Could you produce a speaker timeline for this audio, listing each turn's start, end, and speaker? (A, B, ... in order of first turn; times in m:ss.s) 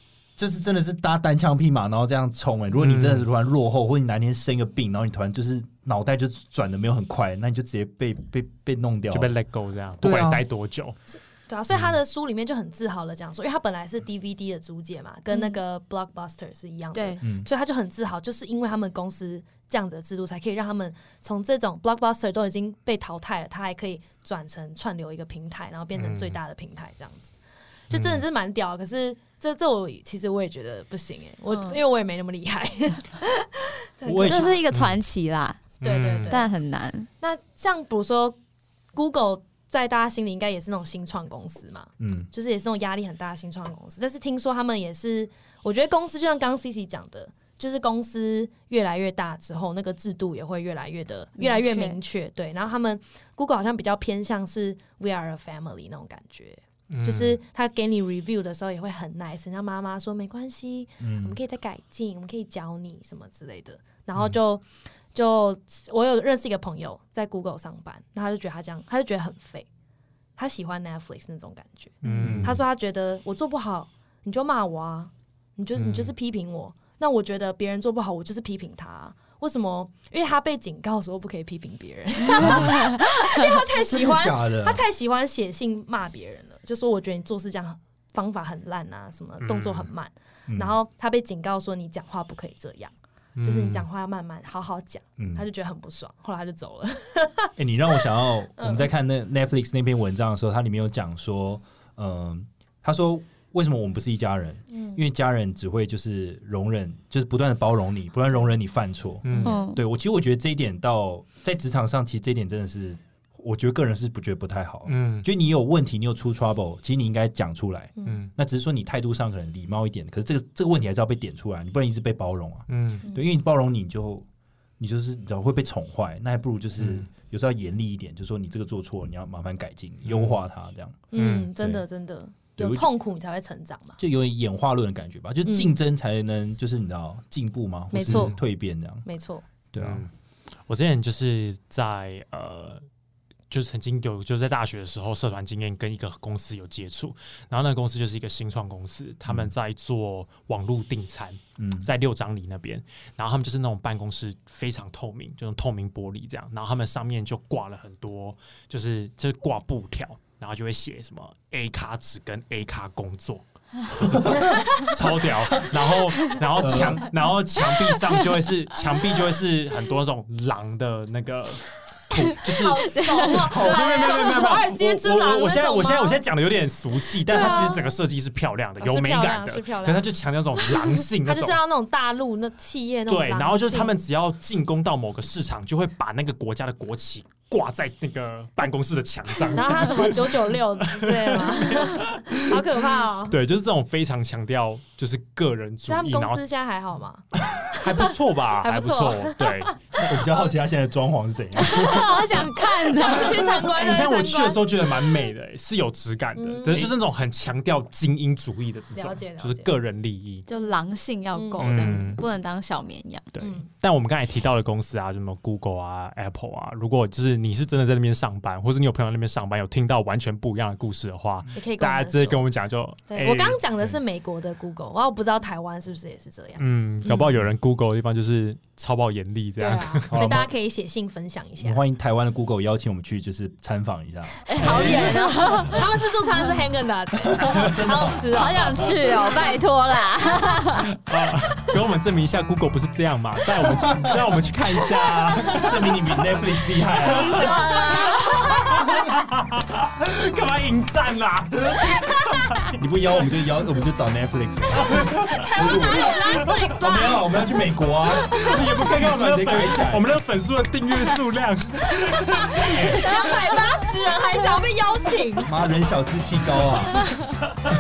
0:00.4-0:09.4 A
0:02.7-0:03.3 B
0:09.1-0:11.0 B
0:10.0-0:10.4 A
0:11.1-0:27.3 C
0:15.3-0:15.6 D
0:16.9-0:17.2 D
0:17.2-0:17.5 A
0:26.0-0:26.4 B
0:27.9-0:34.6 C
0:27.9-0:28.2 B
0:34.1-0:34.9 B
0:34.2-0:37.1 D
0:35.8-0:36.4 B
0:35.8-0:36.5 C
0:37.2-0:38.4 C
0:38.9-1:09.7 C
0:42.0-0:42.3 A
0:51.4-0:52.0 D
0:56.9-0:57.4 B
1:01.0-1:01.4 A
1:10.4-1:37.5 C
1:12.0-1:12.6 B
1:12.0-1:12.4 D
1:12.2-1:12.6 A
1:15.8-1:16.1 B
1:22.4-1:23.1 A
1:23.8-1:24.8 A
1:29.4-1:29.9 B
1:30.5-1:30.8 A
1:33.4-1:33.9 B
1:35.2-1:35.5 A
1:37.6-2:04.3 A
1:38.6-1:38.9 C
1:44.7-1:45.0 C
1:49.2-1:49.6 B
1:49.4-1:49.7 C
1:49.4-1:49.8 D
1:54.9-1:55.3 B
1:58.0-1:58.2 C
1:58.0-1:58.3 B
2:02.7-2:03.0 B
2:04.8-2:11.0 A
2:06.8-2:07.1 B
2:10.1-2:10.4 B
2:11.1-2:14.0 C
2:11.2-2:11.5 B
2:12.6-2:12.9 A
2:14.0-2:19.1 A
2:15.4-2:15.8 C
2:17.9-2:18.4 C
2:18.1-2:18.4 B
2:19.0-2:19.4 C
2:19.7-2:20.0 A
2:19.8-2:20.1 B
2:20.7-2:22.8 B
2:23.5-3:01.6 B
2:29.3-2:29.5 A
2:31.6-2:31.9 A
2:44.0-2:44.8 A
2:44.5-2:44.9 C
2:45.5-2:45.8 A
2:46.2-2:46.4 D
2:46.6-2:47.0 A
2:47.8-2:48.3 D
2:52.1-2:54.0 D
2:52.4-2:56.2 C
2:53.5-2:53.9 A
2:57.3-2:57.9 C
2:58.8-3:00.1 C
3:01.1-3:04.0 C
3:03.1-3:12.6 B
3:09.5-3:13.4 C
3:13.3-3:16.4 B
3:15.9-3:20.0 C
3:17.7-3:19.8 B
3:20.0-3:22.5 A
3:21.6-3:23.7 D
3:22.8-3:25.0 C
3:23.5-3:30.5 B
3:26.4-3:27.0 C
3:28.9-3:29.7 C
3:30.5-3:33.4 D
3:31.3-3:32.1 C
3:31.6-3:32.2 B
3:33.4-3:43.6 B
3:33.4-3:33.7 C
3:41.5-3:42.4 C
3:43.1-3:47.3 C
3:46.6-3:50.1 B
3:49.6-3:51.8 C
3:50.1-3:50.5 A
3:51.6-3:55.4 A
3:54.4-3:55.9 D
3:54.6-3:58.9 C
3:57.4-3:58.5 A
3:58.3-4:00.9 D
4:00.9-4:12.7 B
4:03.6-4:04.0 A
4:05.4-4:05.7 C
4:05.4-4:07.6 A
4:07.0-4:09.0 D
4:12.8-4:16.2 A
4:14.8-4:16.5 B
4:15.3-4:17.5 C
4:16.8-4:20.1 A
4:18.2-4:18.7 C
4:18.3-4:23.2 B
4:22.0-4:25.5 C
4:25.5-4:27.1 A